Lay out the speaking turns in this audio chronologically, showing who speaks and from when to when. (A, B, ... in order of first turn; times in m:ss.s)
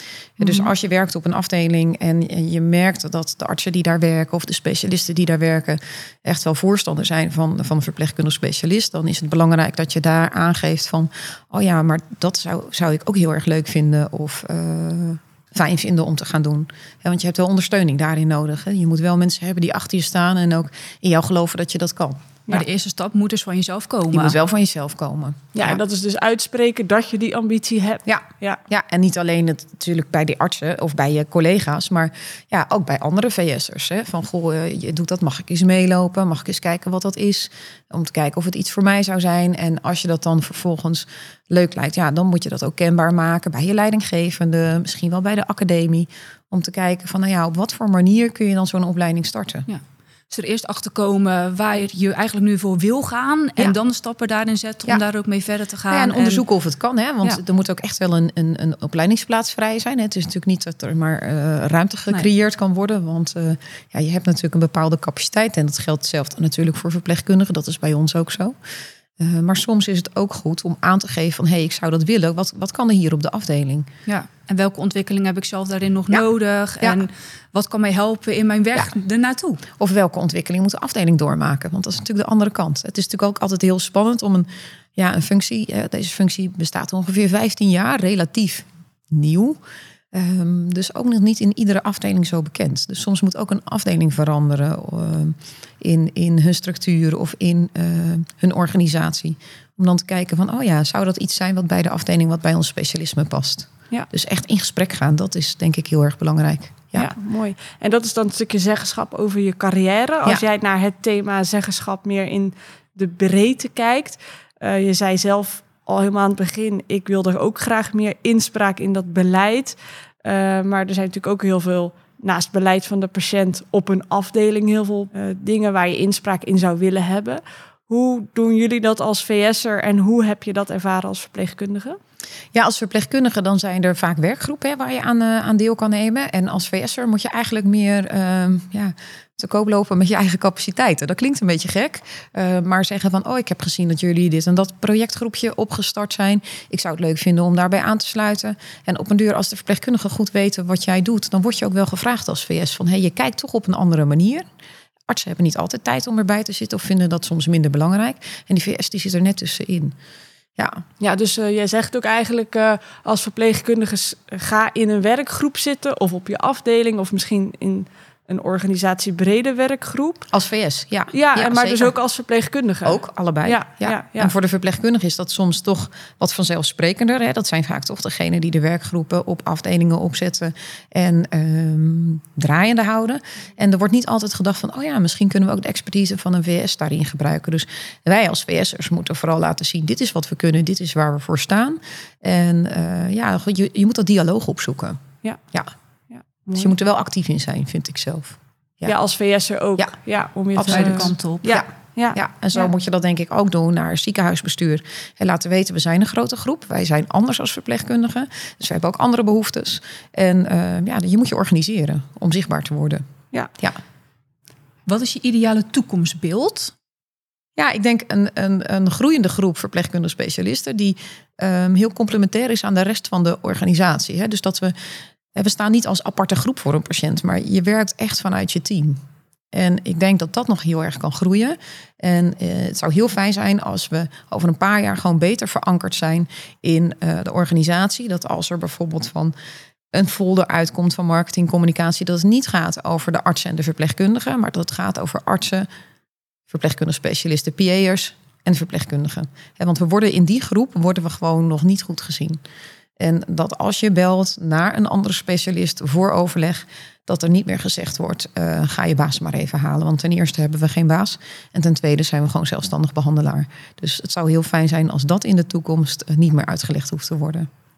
0:00.4-0:22.2 A
0:22.5-0:24.4 B
0:24.1-0:25.8 A
0:25.6-0:28.6 C
0:28.1-0:49.7 A
0:49.7-0:56.4 B
0:55.9-1:08.6 A
1:09.2-1:13.9 A
1:14.1-1:19.6 B
1:19.7-1:29.6 A
1:30.1-1:47.1 A
1:47.0-2:12.0 C
2:12.5-2:34.5 A
2:35.1-2:40.0 A
2:40.6-2:40.8 A
2:41.0-2:50.3 C
2:50.3-2:51.9 A
2:51.1-2:54.3 C
2:52.8-3:15.7 A
3:16.1-3:16.7 C
3:16.6-3:19.0 A
3:18.9-3:22.7 C
3:20.6-3:33.0 A
3:20.7-3:21.6 B
3:34.9-3:36.7 B
3:37.6-3:44.8 A
3:45.4-3:49.0 A
3:49.5-3:59.4 A
3:59.9-4:05.7 A
4:06.5-4:12.4 A
4:13.0-4:27.5 A